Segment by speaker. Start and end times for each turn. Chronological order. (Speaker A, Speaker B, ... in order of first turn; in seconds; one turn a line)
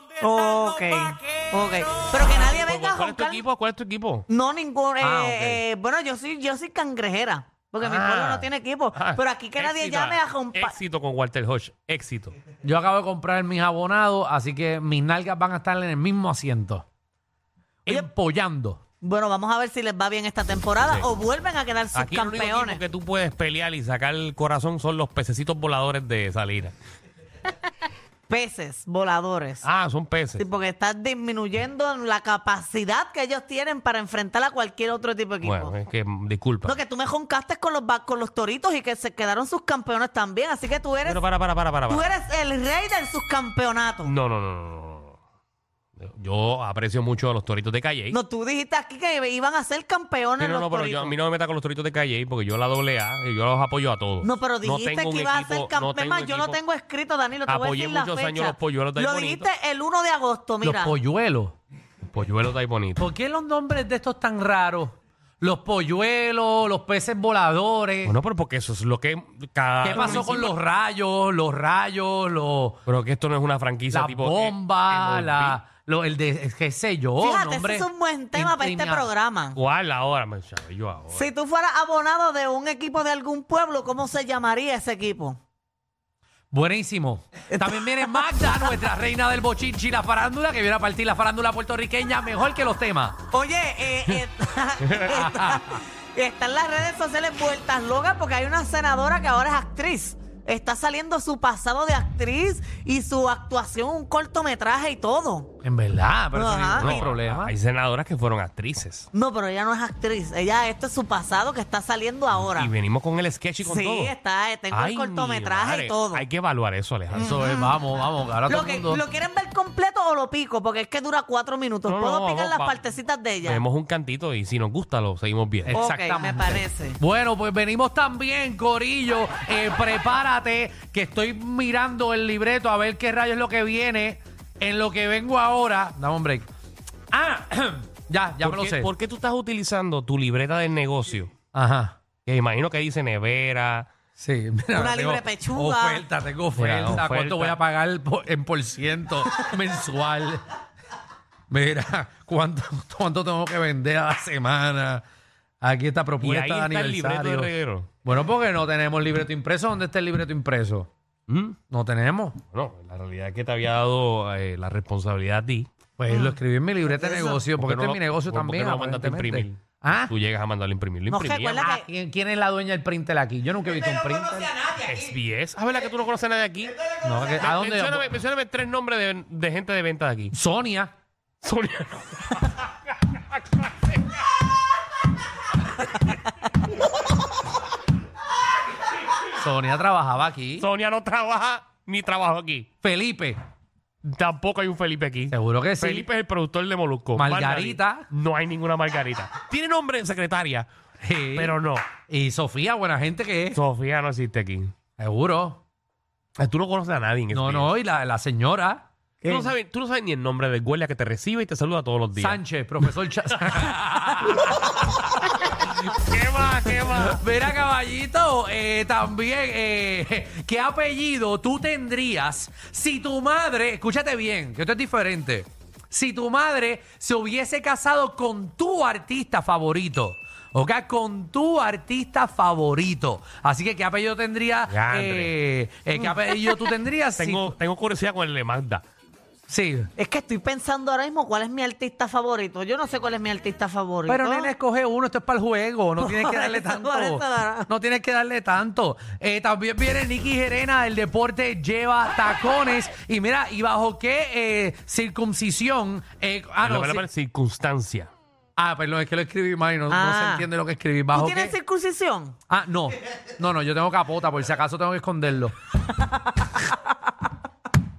Speaker A: 0.2-3.4
Speaker B: 1.9-4.3
Speaker A: 4.3-10.8
Speaker C: 5.0-5.6
Speaker B: 7.8-12.4
Speaker C: 12.6-16.9
Speaker C: 17.9-18.8
Speaker A: 19.0-22.8
Speaker B: 21.9-26.7
Speaker A: 28.3-29.6
Speaker B: 29.6-30.4
Speaker A: 30.4-35.8
Speaker B: 35.4-36.8
Speaker A: 36.6-41.2
Speaker B: 41.0-42.1
Speaker A: 41.9-44.1
Speaker B: 44.0-45.2
Speaker B: 46.0-48.2
Speaker A: 48.1-51.1
Speaker B: 50.4-56.6
Speaker A: 54.2-61.0
Speaker B: 57.5-59.5
Speaker C: 60.6-61.5
Speaker B: 62.1-63.1
Speaker C: 63.0-68.2
Speaker B: 68.0-70.5
Speaker C: 69.8-72.8
Speaker A: 70.0-70.3
Speaker B: 72.9-75.6
Speaker C: 73.9-79.1
Speaker A: 77.2-79.6
Speaker B: 79.5-81.3
Speaker A: 81.1-85.4
Speaker C: 86.5-93.2
Speaker A: 87.5-88.6
Speaker A: 93.3-105.5
Speaker B: 94.8-95.2
Speaker C: 95.1-95.7
Speaker C: 105.6-107.5
Speaker A: 106.3-107.0
Speaker B: 106.8-109.1
Speaker A: 109.1-112.7
Speaker B: 112.3-114.2
Speaker A: 113.6-116.2
Speaker B: 114.7-117.3
Speaker A: 117.1-117.8
Speaker C: 117.1-119.0
Speaker A: 118.5-123.6
Speaker B: 121.9-122.8
Speaker B: 123.4-125.8
Speaker C: 125.7-136.5
Speaker A: 125.7-127.0
Speaker C: 137.1-138.9
Speaker B: 138.4-141.3
Speaker C: 141.5-142.0
Speaker B: 142.2-143.9
Speaker C: 144.2-150.4
Speaker A: 144.7-146.1
Speaker B: 146.6-147.6
Speaker C: 151.5-155.0
Speaker C: 155.6-157.5
Speaker B: 156.2-157.9
Speaker C: 158.0-160.9
Speaker B: 161.3-161.6
Speaker C: 161.7-162.4
Speaker B: 162.5-165.7
Speaker C: 166.0-170.1
Speaker A: 166.1-166.4
Speaker B: 167.0-171.6
Speaker A: 171.1-171.9
Speaker C: 171.6-174.6
Speaker B: 174.7-180.3
Speaker C: 177.0-178.1
Speaker C: 180.3-180.9
Speaker B: 181.4-182.7
Speaker C: 189.3-190.7
Speaker B: 190.6-192.7
Speaker C: 192.8-193.4
Speaker B: 194.0-200.7
Speaker C: 195.3-196.1
Speaker C: 197.2-198.1
Speaker C: 201.0-203.6
Speaker B: 201.3-201.9
Speaker B: 203.5-204.7
Speaker C: 205.0-205.6
Speaker B: 206.4-207.7
Speaker C: 207.3-208.8
Speaker B: 209.2-212.4
Speaker A: 209.2-209.5
Speaker C: 212.2-215.0
Speaker B: 214.3-214.7
Speaker B: 215.8-217.2
Speaker C: 216.9-237.6
Speaker B: 234.7-235.3
Speaker A: 236.0-236.6
Speaker B: 237.2-238.8
Speaker C: 239.5-239.9
Speaker A: 240.0-244.5
Speaker C: 244.1-257.1
Speaker A: 246.0-247.7
Speaker B: 256.6-258.1
Speaker C: 258.6-261.6
Speaker A: 259.9-260.5
Speaker A: 261.1-262.4
Speaker C: 262.5-265.5